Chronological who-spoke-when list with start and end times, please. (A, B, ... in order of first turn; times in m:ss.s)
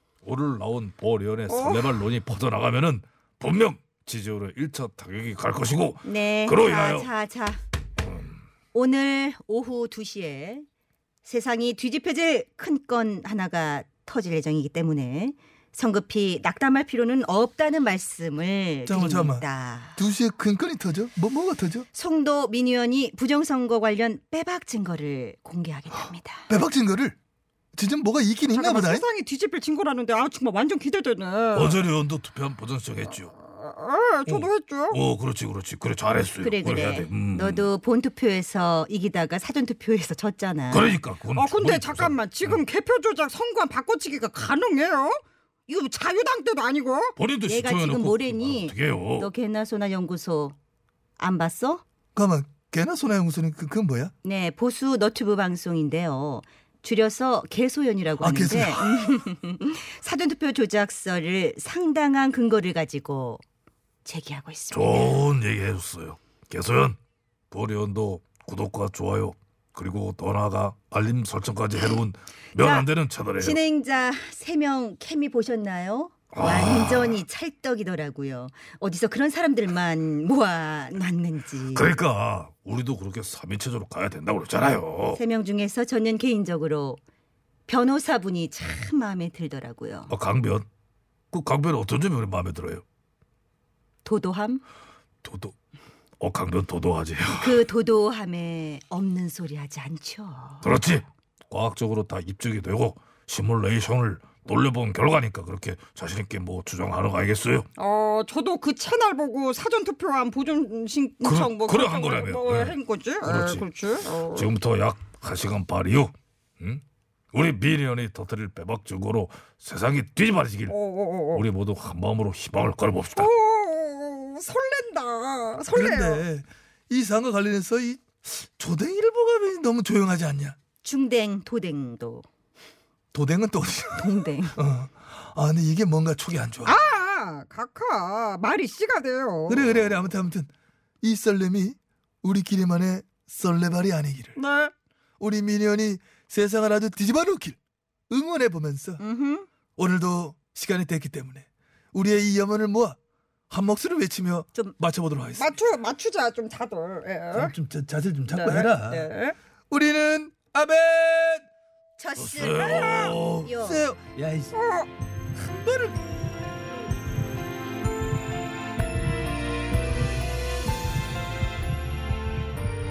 0:00.2-0:07.1 A
0:01.5-0:02.0 B
0:06.0-0:07.6 C
0:08.7-0:10.7 C
0:11.2-0:20.0 C
0:18.9-0:21.9 D
0:21.9-0:26.5 C
0:26.5-0:27.2 D
0:27.8-0:29.1 D
0:28.5-0:31.8 B
0:31.5-0:33.3 A
0:33.4-0:35.0 B
0:34.3-0:37.7 A
0:36.4-0:41.0 C
0:40.7-0:42.6 A
0:41.3-0:45.2 B
0:45.7-0:47.1 B
0:47.2-0:49.3 A
0:47.5-0:50.6 C
0:51.2-0:51.8 C
0:52.2-0:54.1 D
0:54.2-1:03.4 C
0:58.2-0:59.1 D
1:04.0-1:05.2 C
1:04.7-1:07.0 A
1:07.5-1:13.6 A
1:12.6-1:21.9 C
1:16.3-1:17.2 A
1:21.7-1:25.2 A
1:25.2-1:27.0 C
1:27.7-1:30.1 C
1:30.1-1:30.7 A
1:31.3-1:32.8 A
1:34.0-1:34.6 C
1:35.2-1:35.6 A
1:36.2-1:37.7 A
1:37.4-1:40.7 C
1:40.6-1:47.7 A
1:47.8-1:54.5 B
1:51.2-1:53.7 A
1:54.2-2:00.8 A
2:00.7-2:01.4 B
2:01.3-2:03.3 A
2:03.2-2:06.2 B
2:05.7-2:10.6 D
2:10.8-2:12.3 C
2:13.1-2:16.8 D
2:13.9-2:14.6 C
2:16.6-2:19.6 B
2:19.5-2:20.5 D
2:21.0-2:24.4 D
2:24.4-2:24.7 B
2:25.2-2:27.6 D
2:28.1-2:29.0 D
2:29.0-2:29.5 C
2:29.8-2:33.0 D
2:33.5-2:35.5 D
2:35.4-2:37.5 B
2:37.3-2:39.1 D
2:38.3-2:39.4 B
2:39.7-2:41.4 D
2:42.0-2:43.9 C
2:42.2-2:43.4 A
2:42.6-2:43.1 B
2:43.1-2:44.6 D
2:44.5-2:44.9 B
2:45.4-2:46.5 D